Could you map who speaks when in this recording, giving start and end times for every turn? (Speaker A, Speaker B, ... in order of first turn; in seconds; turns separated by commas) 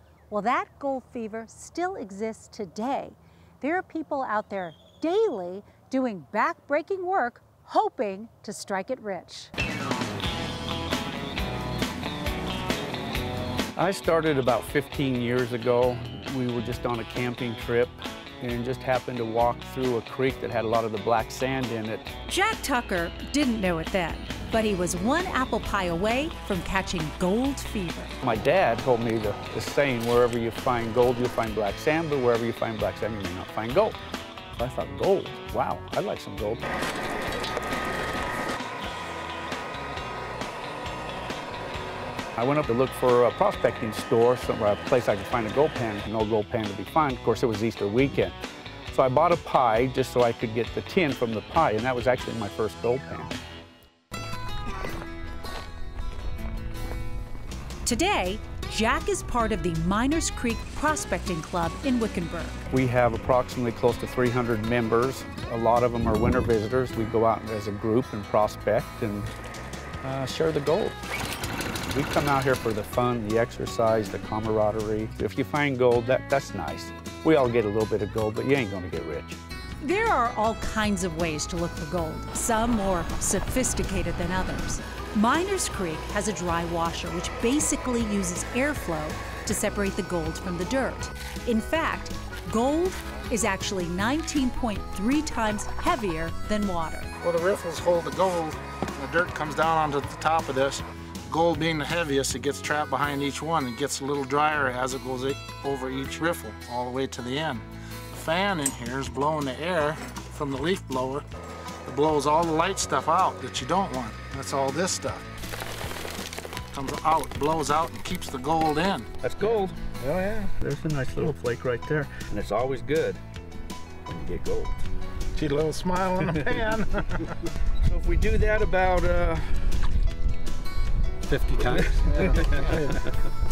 Speaker A: 0.3-9.5, Speaker B: 13.8-22.1, Speaker A: 22.2-28.1, Speaker B: 28.2-34.0, Speaker B: 34.5-36.6, Speaker B: 42.4-48.4, Speaker B: 48.9-53.3, Speaker A: 57.8-62.6, Speaker B: 62.7-69.3, Speaker B: 70.0-71.0, Speaker B: 71.8-79.4, Speaker A: 79.8-97.1, Speaker C: 97.2-111.2, Speaker C: 111.8-115.2, Speaker C: 116.7-119.1, Speaker B: 119.2-119.8, Speaker C: 120.0-120.5, Speaker B: 120.6-123.2, Speaker B: 124.0-124.8, Speaker C: 125.3-127.3, Speaker B: 126.2-126.6, Speaker B: 127.8-129.8, Speaker B: 131.4-133.2